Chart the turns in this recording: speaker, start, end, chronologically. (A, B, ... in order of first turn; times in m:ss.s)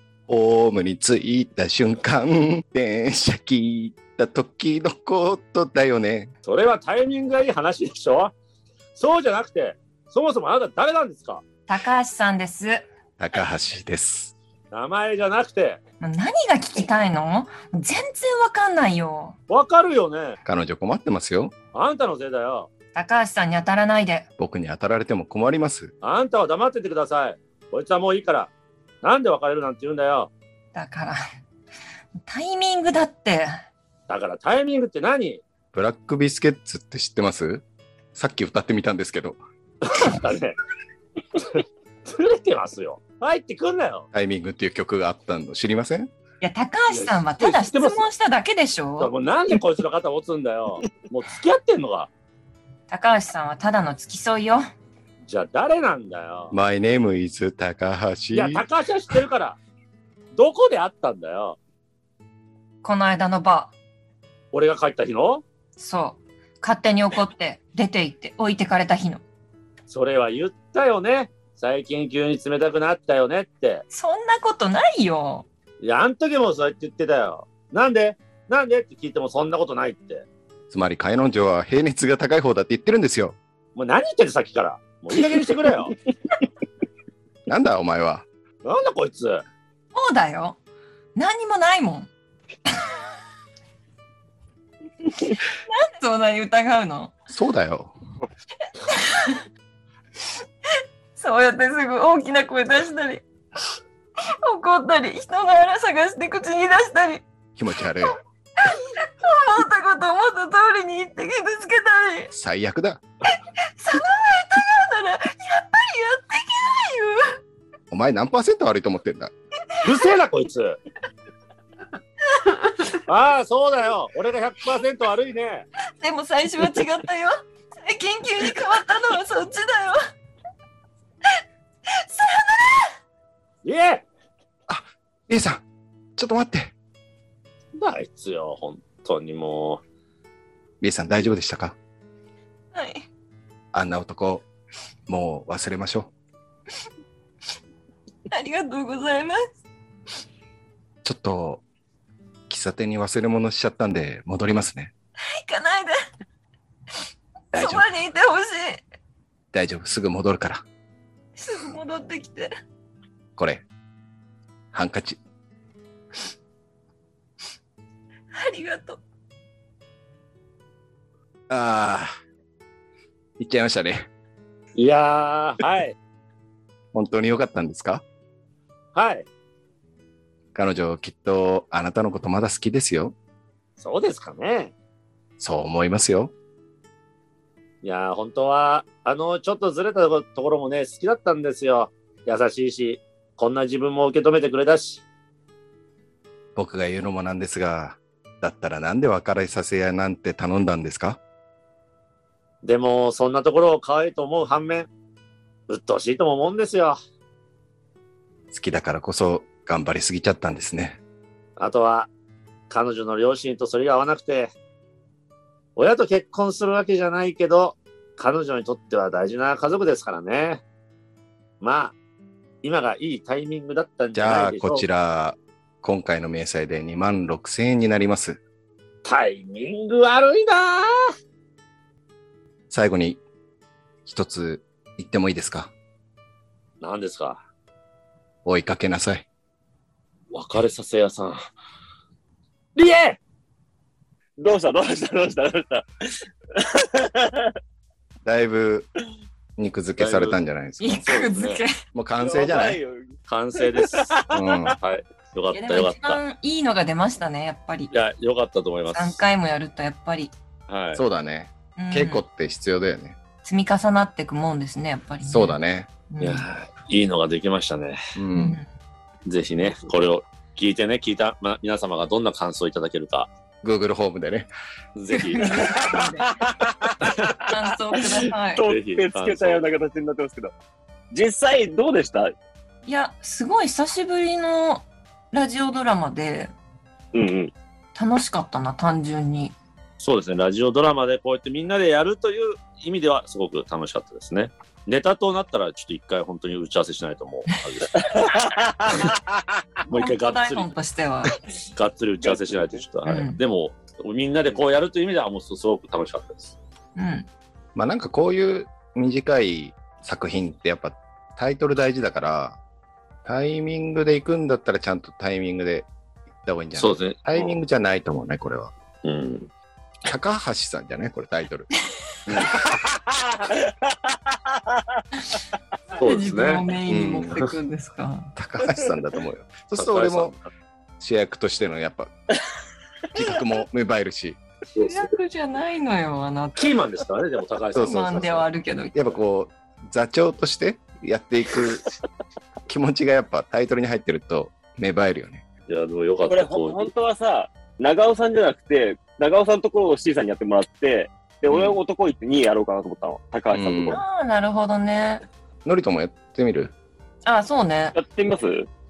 0:00.3-0:06.3 A
0:06.4-0:08.3 B
0:09.0-0:11.4 B
0:11.7-0:12.8 C
0:13.2-0:14.3 A
0:14.7-0:15.8 B
0:16.0-0:19.4 C
0:19.5-0:20.4 B
0:20.4-0:21.5 A
0:21.7-0:22.7 B
0:22.9-0:24.3 C
0:24.4-0:25.9 A
0:26.0-0:28.5 B
0:29.0-0:30.3 B
0:30.7-0:31.2 C
0:32.2-0:33.6 C
0:34.1-0:35.4 B
0:35.7-0:37.6 A
0:38.1-0:39.4 A
0:39.8-0:40.6 B
0:41.5-0:44.0 B
0:44.1-0:46.1 A
0:46.4-0:49.1 C
0:46.9-0:48.0 B
0:49.0-0:52.1 B
0:52.9-0:54.6 C
0:55.3-0:56.5 B
0:56.5-0:58.6 A
0:58.3-0:59.6 B
1:00.3-1:01.6 B
1:02.8-1:03.7 C
1:04.5-1:05.4 B
1:05.8-1:09.2 C
1:09.9-1:13.8 B
1:13.9-1:15.4 C
1:15.8-1:20.2 B
1:20.7-1:23.4 A
1:23.8-1:26.0 B
1:27.5-1:28.2 A
1:28.6-1:29.4 B
1:29.9-1:30.6 C
1:31.2-1:32.1 C
1:32.7-1:32.9 C
1:35.6-1:37.1 C
1:37.3-1:37.9 A
1:38.8-1:39.4 C
1:41.2-1:43.2 C
1:44.2-1:47.2 C
1:47.6-1:48.2 A
1:48.0-1:52.3 C
1:52.3-1:53.0 A
1:53.8-1:57.4 C
1:57.9-1:59.3 A
1:59.8-2:00.8 B
2:02.4-2:02.8 C
2:03.0-2:05.7 B
2:06.0-2:10.0 C
2:11.9-2:12.9 C
2:13.6-2:14.0 B
2:14.7-2:15.6 A
2:16.2-2:16.7 A
2:17.8-2:19.8 B
2:20.8-2:21.7 A
2:22.7-2:23.0 C
2:23.7-2:24.4 A
2:25.1-2:26.1 A
2:28.3-2:29.4 C
2:31.0-2:31.6 A
2:32.5-2:34.9 A
2:35.3-2:36.0 C
2:37.5-2:38.8 C
2:37.5-2:37.9 A
2:39.5-2:40.6 A
2:41.4-2:42.5 C
2:43.4-2:43.6 A
2:44.7-2:45.2 A
2:48.3-2:49.0 C
2:51.5-2:52.1 A
2:53.4-2:54.0 A
2:54.8-2:56.0 B
2:56.9-2:58.0 A
2:58.9-2:59.2 B
3:00.5-3:03.1 A
3:03.8-3:04.7 B
3:05.4-3:06.3 A
3:07.8-3:15.0 B
3:16.6-3:21.2 A
3:22.6-3:24.9 B
3:25.7-3:27.0 B
3:28.5-3:31.0 A
3:31.6-3:32.1 B
3:32.7-3:34.5 B
3:35.8-3:40.6 B
3:41.6-3:41.9 B
3:42.6-3:44.8 B
3:44.1-3:48.4 A
3:49.0-3:50.9 B
3:52.7-3:53.2 A
3:54.0-3:55.7 A
3:56.8-3:57.4 B
3:58.4-3:59.2 A
4:00.3-4:01.4 B
4:02.7-4:03.2 B
4:04.4-4:05.9 D
4:06.5-4:07.5 D
4:08.2-4:08.9 A
4:09.6-4:11.1 A
4:10.0-4:10.4 B
4:10.8-4:11.8 C
4:11.0-4:11.6 B
4:11.9-4:12.8 A
4:12.2-4:14.1 D
4:13.3-4:16.2 B
4:14.3-4:14.8 A
4:15.5-4:17.9 C
4:17.9-4:19.2 B
4:18.9-4:20.3 C
4:20.7-4:21.0 B
4:20.9-4:23.2 A
4:21.8-4:22.2 C
4:23.4-4:25.6 C
4:25.2-4:25.9 A
4:26.1-4:26.4 C
4:26.2-4:28.0 B
4:28.2-4:28.6 A
4:28.3-4:28.6 C
4:29.2-4:33.3 B
4:33.6-4:34.5 A
4:34.9-4:37.3 B
4:35.1-4:36.4 C
4:35.4-4:36.0 D
4:37.0-4:37.3 D
4:37.5-4:38.6 C
4:38.0-4:40.5 D
4:38.6-4:39.6 B
4:41.1-4:42.3 D
4:42.8-4:46.5 C
4:47.1-4:47.5 D
4:47.9-4:49.5 C
4:50.0-4:59.2 B
4:59.8-5:00.7 B
4:59.9-5:01.3 C
5:01.7-5:06.5 B
5:03.0-5:03.4 C
5:07.0-5:07.3 C
5:07.7-5:12.6 A
5:13.2-5:15.9 A
5:16.4-5:18.7 A
5:16.7-5:17.2 B
5:19.0-5:19.5 B
5:20.0-5:21.7 A
5:22.3-5:22.5 A
5:22.3-5:23.0 B
5:26.0-5:26.6 B
5:26.0-5:28.3 C
5:26.9-5:27.4 A
5:28.4-5:30.3 A
5:29.7-5:30.4 B
5:31.0-5:32.1 A
5:33.1-5:34.4 A
5:34.8-5:36.8 C
5:36.6-5:38.4 B
5:37.7-5:41.9 A
5:37.8-5:38.9 C
5:42.7-5:45.4 A
5:45.7-5:46.9 B
5:46.3-5:54.0 D
5:51.5-5:51.8 A
5:53.5-5:54.0 A
5:53.9-5:55.2 C
5:55.6-5:56.7 A
5:57.2-5:58.0 C
5:57.9-5:58.7 D